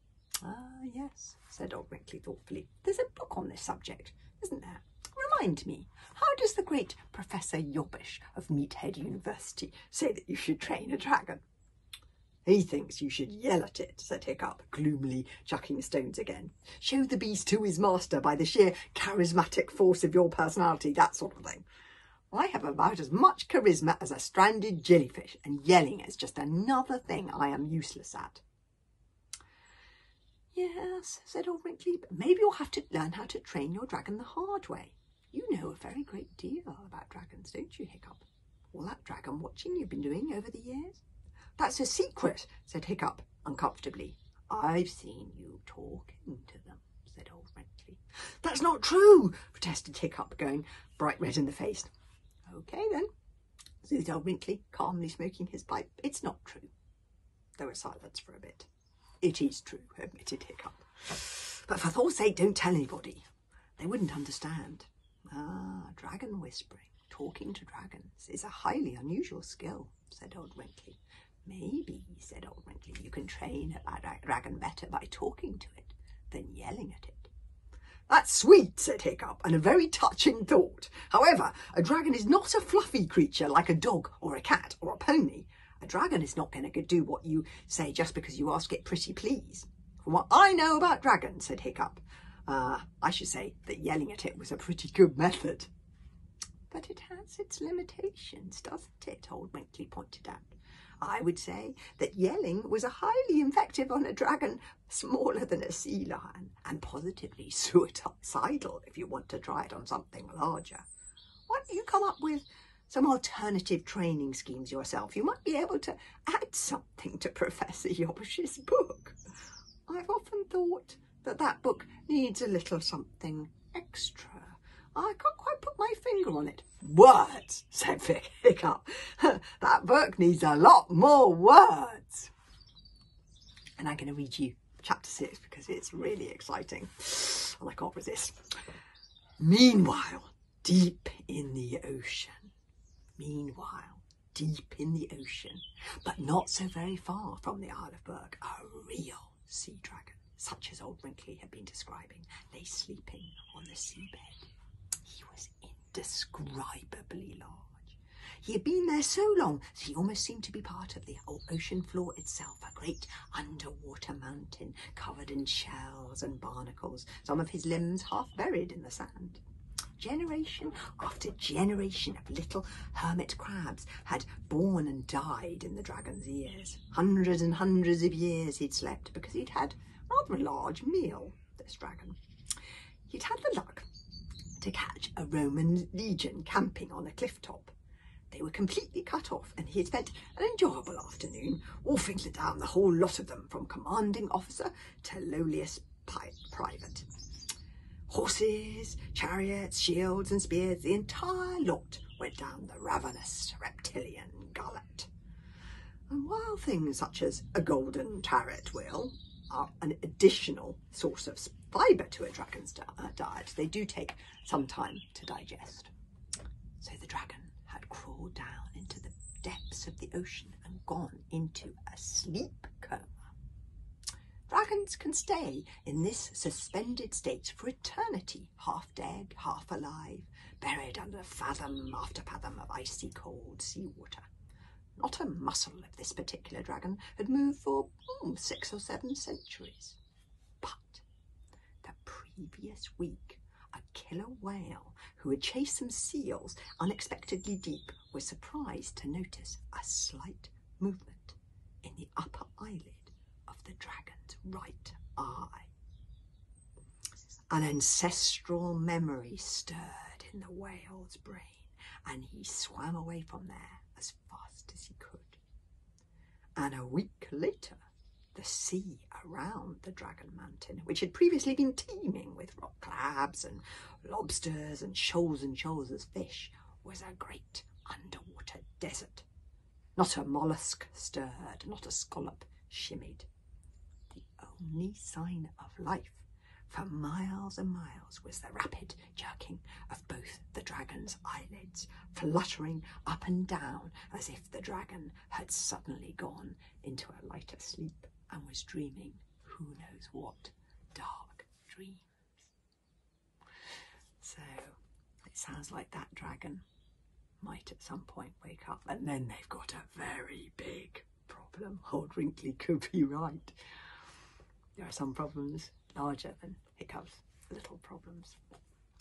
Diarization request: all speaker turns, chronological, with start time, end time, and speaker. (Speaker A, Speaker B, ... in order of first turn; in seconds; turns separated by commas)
Speaker A: 0.4-11.4, Speaker A: 12.4-21.6, Speaker A: 22.3-28.4, Speaker A: 30.5-41.0, Speaker A: 41.6-51.9, Speaker A: 52.5-53.1, Speaker A: 53.8-56.7, Speaker A: 57.6-58.7, Speaker A: 59.2-63.2, Speaker A: 63.8-77.3, Speaker A: 78.1-95.7, Speaker A: 96.7-110.9, Speaker A: 111.5-119.2, Speaker A: 119.9-132.3, Speaker A: 133.8-138.4, Speaker A: 139.4-142.5, Speaker A: 143.2-154.5, Speaker A: 155.0-169.4, Speaker A: 170.0-182.2, Speaker A: 183.1-183.9, Speaker A: 184.6-187.7, Speaker A: 188.3-197.1, Speaker A: 198.1-205.1, Speaker A: 206.1-215.9, Speaker A: 216.8-223.1, Speaker A: 224.5-234.3, Speaker A: 235.0-240.0, Speaker A: 240.6-241.0, Speaker A: 241.8-255.7, Speaker A: 257.5-265.4, Speaker A: 266.6-267.8, Speaker A: 268.3-279.2, Speaker A: 280.0-283.3, Speaker A: 284.1-302.1, Speaker A: 304.2-304.8, Speaker A: 305.3-306.6, Speaker A: 307.4-313.5, Speaker A: 314.8-318.4